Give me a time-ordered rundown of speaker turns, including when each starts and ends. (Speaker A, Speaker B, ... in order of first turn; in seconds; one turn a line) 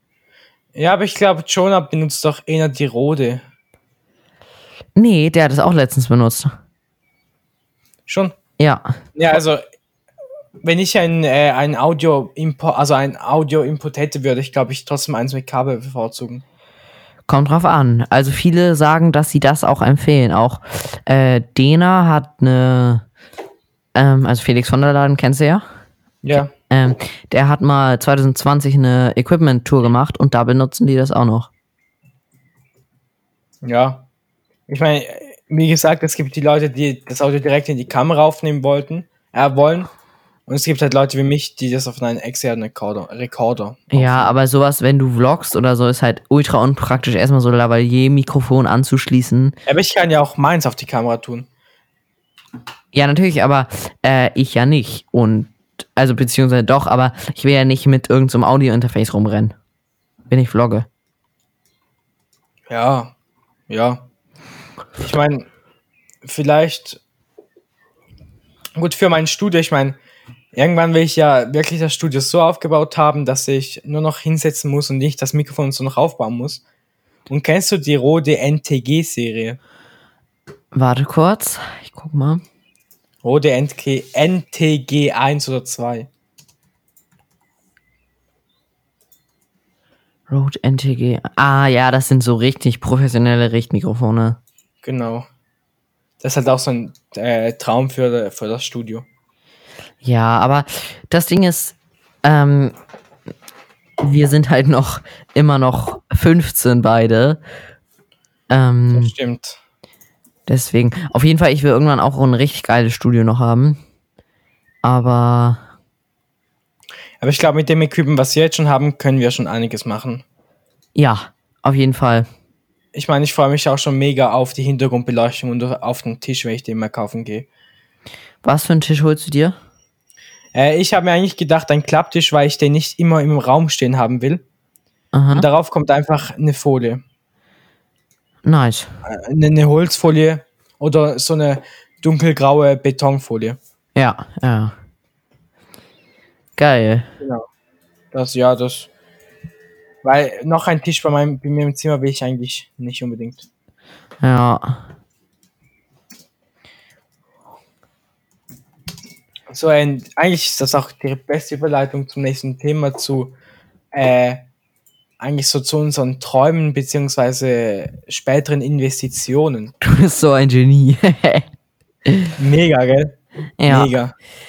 Speaker A: 0.7-3.4
Speaker B: 5.0-6.5
Speaker A: 8.1-8.3
Speaker B: 8.6-8.9
Speaker A: 9.2-9.6
Speaker A: 10.6-16.4
Speaker B: 17.3-23.0
Speaker B: 23.9-25.6
Speaker A: 26.2-26.5
Speaker B: 26.3-31.5
Speaker A: 33.6-34.0
Speaker A: 34.7-39.9
Speaker A: 40.5-44.3
Speaker B: 43.9-49.5
Speaker A: 49.7-51.5
Speaker B: 52.9-59.5
Speaker B: 60.3-60.9
Speaker A: 62.7-63.1
Speaker A: 63.7-64.0
Speaker A: 65.0-65.5
Speaker A: 66.2-67.0
Speaker A: 68.8-70.0
Speaker A: 70.5-76.6
Speaker A: 77.3-79.6
Speaker B: 80.7-82.4
Speaker A: 83.2-86.1
Speaker B: 90.3-94.4
Speaker A: 94.8-95.2
Speaker A: 96.2-99.0
Speaker B: 100.0-102.7
Speaker B: 104.0-107.4
Speaker B: 108.5-109.1
Speaker A: 108.9-109.6
Speaker B: 110.5-113.8
Speaker B: 114.8-115.6
Speaker A: 117.2-120.2
Speaker B: 121.0-122.3
Speaker A: 122.9-127.5
Speaker B: 128.4-129.6
Speaker A: 130.5-134.4
Speaker B: 135.1-135.5
Speaker A: 135.3-137.0
Speaker B: 138.4-138.9
Speaker A: 139.0-143.6
Speaker B: 143.9-144.7
Speaker B: 146.6-147.1
Speaker A: 147.2-147.4
Speaker A: 148.1-148.9
Speaker A: 150.0-153.4
Speaker B: 154.2-154.8
Speaker A: 159.5-163.3
Speaker A: 163.9-164.4
Speaker A: 165.2-169.7
Speaker B: 169.8-171.4
Speaker B: 172.1-172.3
Speaker A: 172.4-173.2
Speaker B: 173.6-173.9
Speaker A: 173.7-174.1